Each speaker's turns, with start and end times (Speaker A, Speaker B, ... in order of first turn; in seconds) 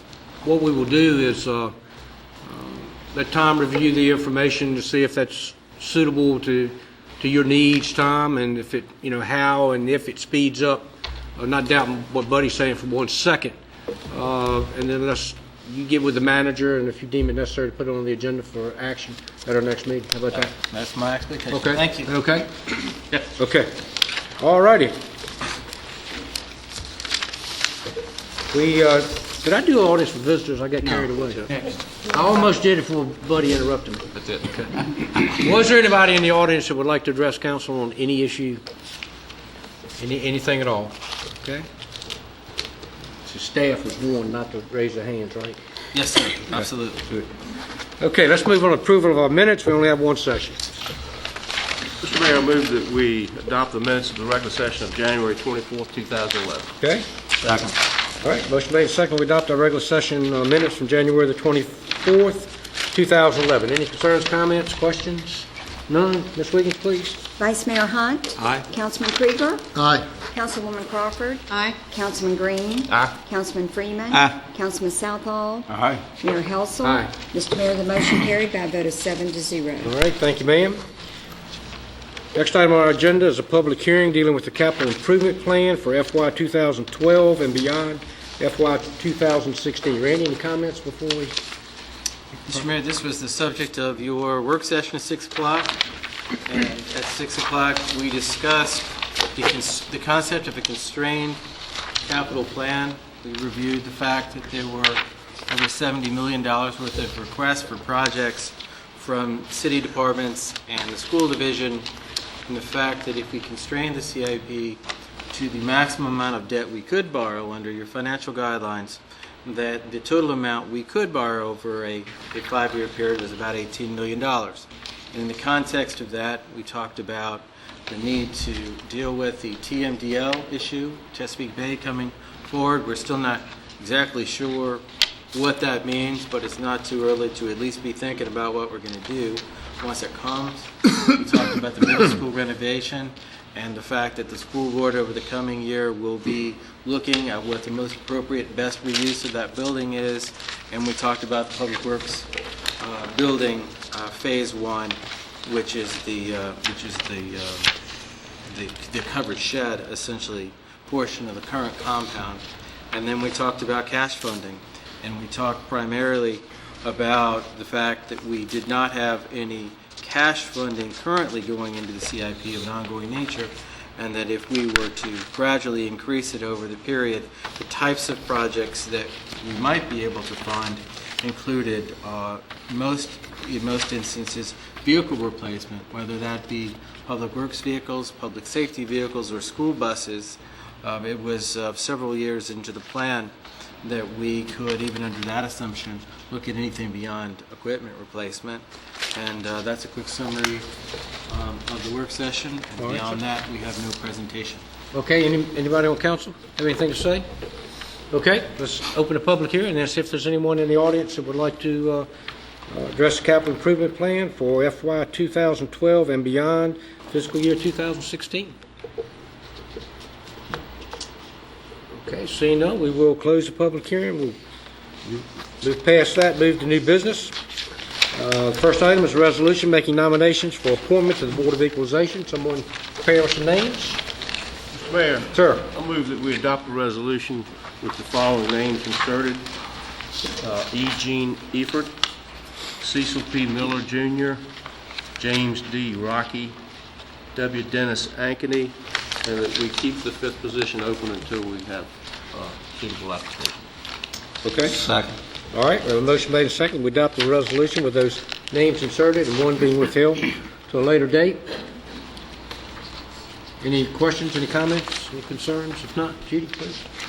Speaker A: 0.4-1.7, 2.5-13.6, 14.1-20.5, 21.5-22.5, 23.2-23.7, 24.4-24.9, 28.5-31.5, 32.1-38.6, 40.0-41.7, 43.2-45.6, 46.5-47.3, 48.0-50.6, 56.8-57.1, 58.2-67.2, 69.8-70.0, 76.8-77.2, 79.8-80.8, 82.3-91.3, 202.8-203.2, 204.9-207.2, 208.1-212.1, 212.7-218.6, 222.0-224.4, 225.1-227.3, 228.1-234.0, 235.3-235.7, 254.4-254.8, 255.5-261.4, 263.6-266.8
Speaker B: 20.3-22.1, 45.9-47.1, 92.5-95.8, 96.5-101.4, 102.1-111.9, 112.5-114.8, 115.3-157.7, 158.5-200.7, 201.3-204.6
Speaker C: 52.0-56.8, 234.7-239.5, 240.4-242.0, 242.8-244.4, 245.2-246.6, 247.3-253.7
Speaker D: 67.4-69.7, 70.3-80.0